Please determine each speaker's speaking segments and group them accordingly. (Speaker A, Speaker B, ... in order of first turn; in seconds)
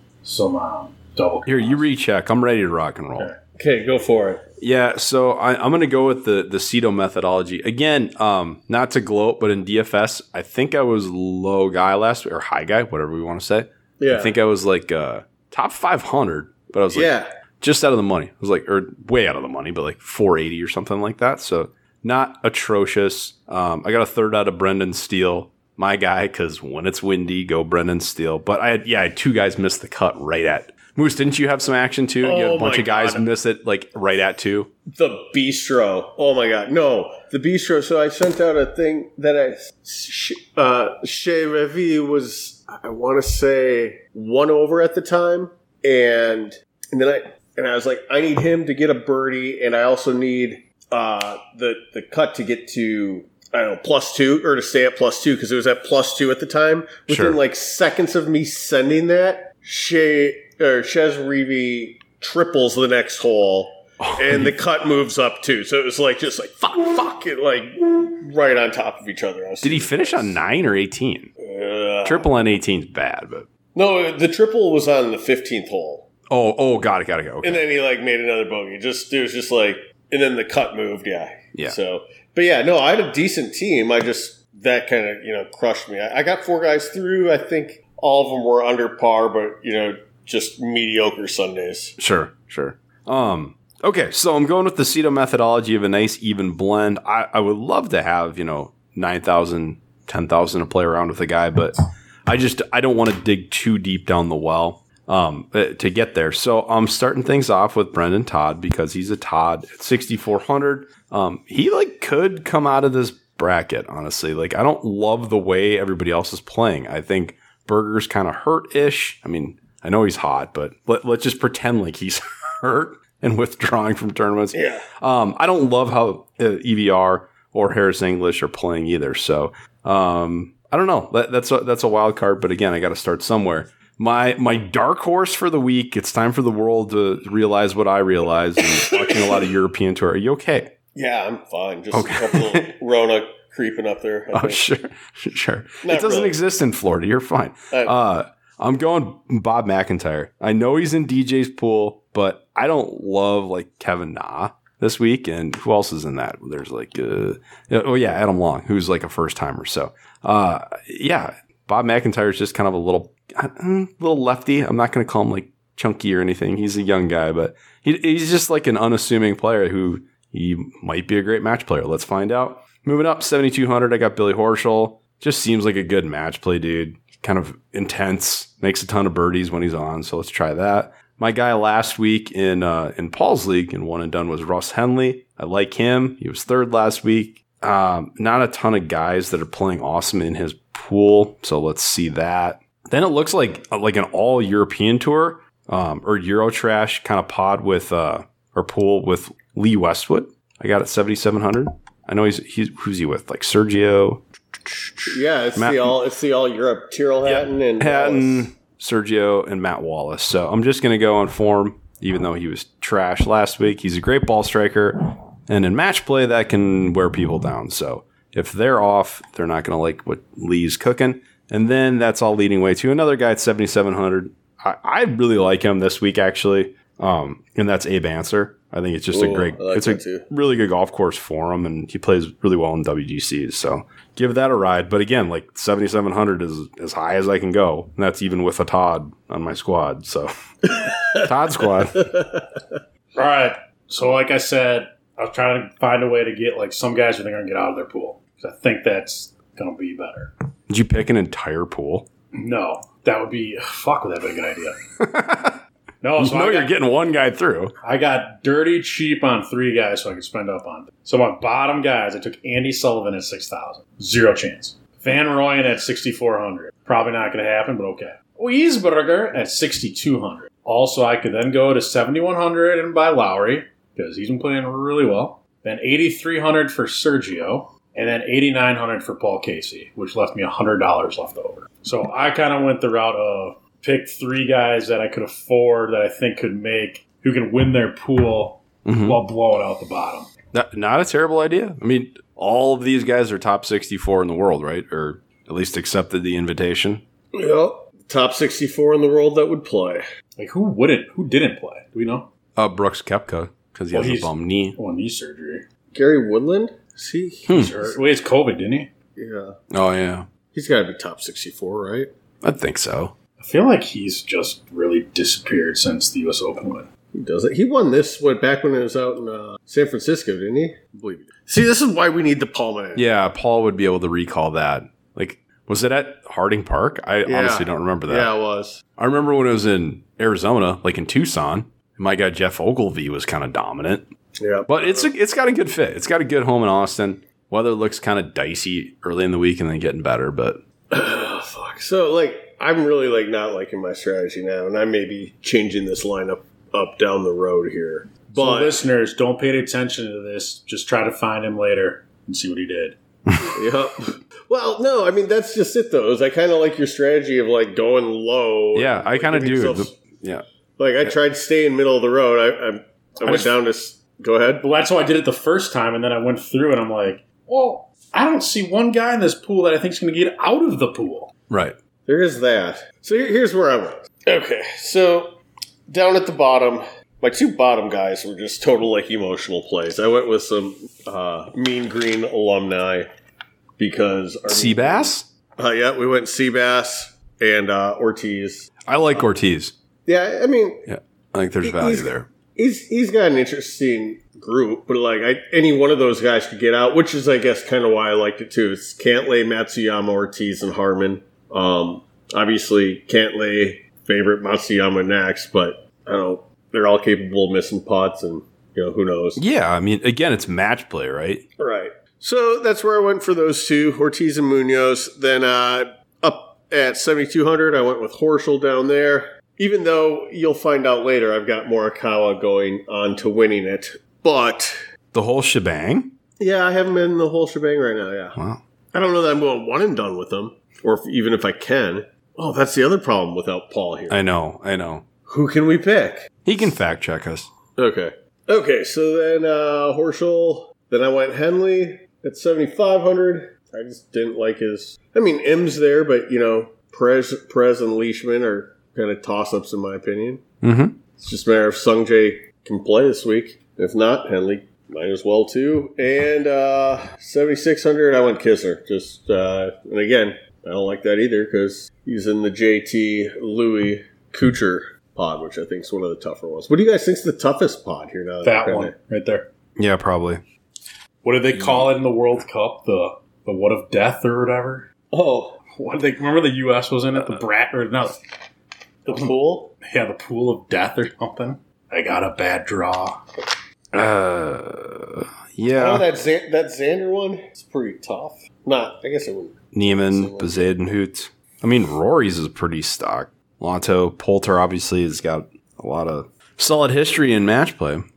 Speaker A: 0.2-1.9, 32.2-33.2, 243.2-250.3, 252.3-254.8, 256.0-256.7, 257.8-290.3, 300.4-302.3, 303.9-305.7, 307.5-308.9, 313.4-316.9, 348.4-353.0, 363.2-363.5, 364.6-371.3, 468.4-469.5, 471.2-474.9, 475.7-478.2, 479.1-483.3
Speaker B: 1.5-3.3, 4.6-34.7, 57.1-57.4, 64.0-64.5, 69.6-71.3, 72.0-73.5, 76.3-77.6, 92.0-140.7, 141.9-142.7, 144.3-205.9, 207.2-240.3, 241.1-242.2, 250.7-252.1, 255.0-255.6, 256.2-257.7, 288.9-289.2, 290.5-297.0, 302.6-304.8, 307.5-307.8, 309.7-310.3, 312.4-313.1, 322.9-328.3, 329.0-334.1, 334.7-340.6, 358.7-360.4, 371.5-371.8, 384.5-385.3, 388.9-389.7, 390.9-392.3, 409.4-411.4, 425.1-426.1, 428.4-428.6, 434.1-435.1, 436.4-437.5, 450.6-451.0, 469.8-470.4, 471.5-471.9, 483.9-486.1, 489.7-498.1
Speaker C: 3.6-4.5, 14.0-14.3, 16.9-17.3, 34.9-70.4, 71.4-72.3, 73.8-76.1, 77.4-92.0, 124.5-124.8, 138.8-139.2, 140.9-144.6, 145.8-146.4, 147.7-148.0, 205.1-208.5, 229.1-230.3, 297.3-300.1, 305.9-308.0, 309.2-309.6, 310.5-312.1, 317.1-323.1, 327.2-328.8, 334.4-335.1, 340.9-348.8, 353.5-360.0, 360.8-364.6, 372.1-375.4, 375.9-383.1, 383.8-388.7, 390.1-390.9, 391.6-409.4, 411.6-424.8, 426.4-428.4, 428.9-434.2, 435.3-436.3, 437.8-450.4, 451.2-468.9, 475.1-475.6, 479.1-479.7, 485.7-490.7